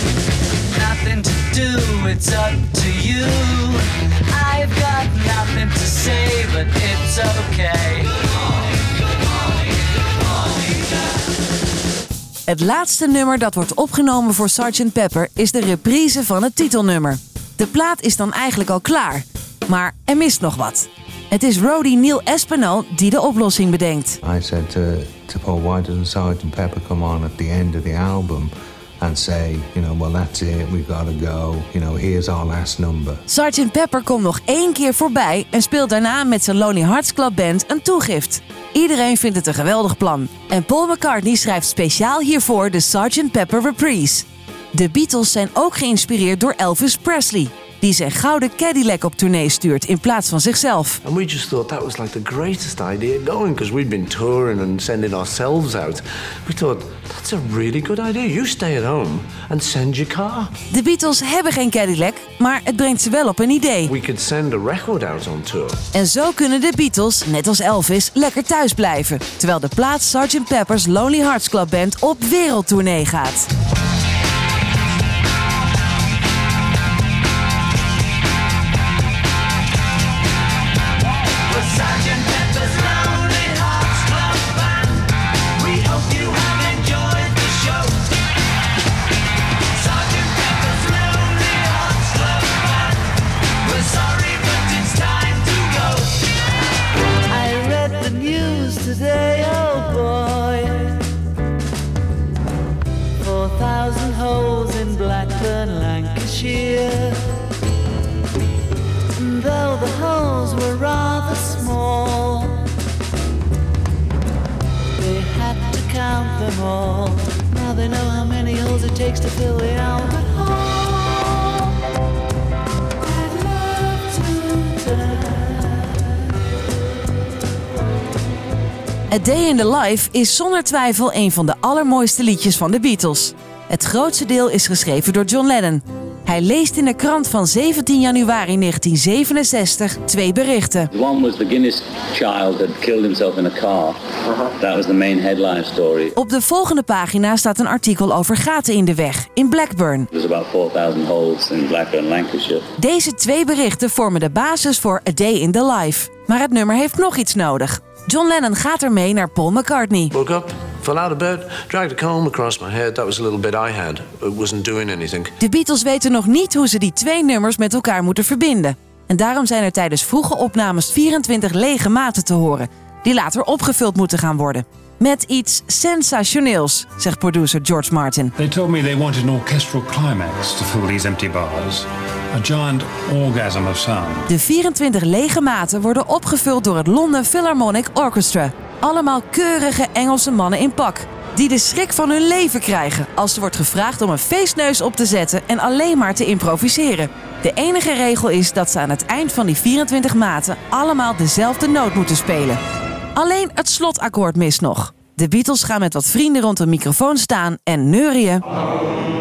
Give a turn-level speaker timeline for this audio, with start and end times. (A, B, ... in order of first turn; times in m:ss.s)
0:00.7-0:08.1 A
0:12.5-0:24.2 B
0:24.2-0:33.2 C
0:33.3-0:51.0 B
0:51.0-1:00.5 D
1:00.7-1:03.9 B
1:03.9-1:05.8 D
1:05.9-1:13.5 B
1:33.7-1:34.1 A
1:37.3-1:41.0 A
1:43.2-1:47.2 A
1:49.2-1:52.6 A
1:55.0-2:00.9 A
2:09.1-2:20.9 B
2:21.1-2:23.9 E
2:24.6-2:25.9 E
2:25.3-2:26.1 A
2:26.2-2:30.1 B
2:30.2-2:32.6 A
2:30.5-2:31.7 E
2:32.8-2:40.1 B
2:40.1-2:45.3 D
2:45.4-2:58.3 B
2:58.4-3:04.3 F
3:04.3-3:22.6 B
3:23.2-3:28.4 B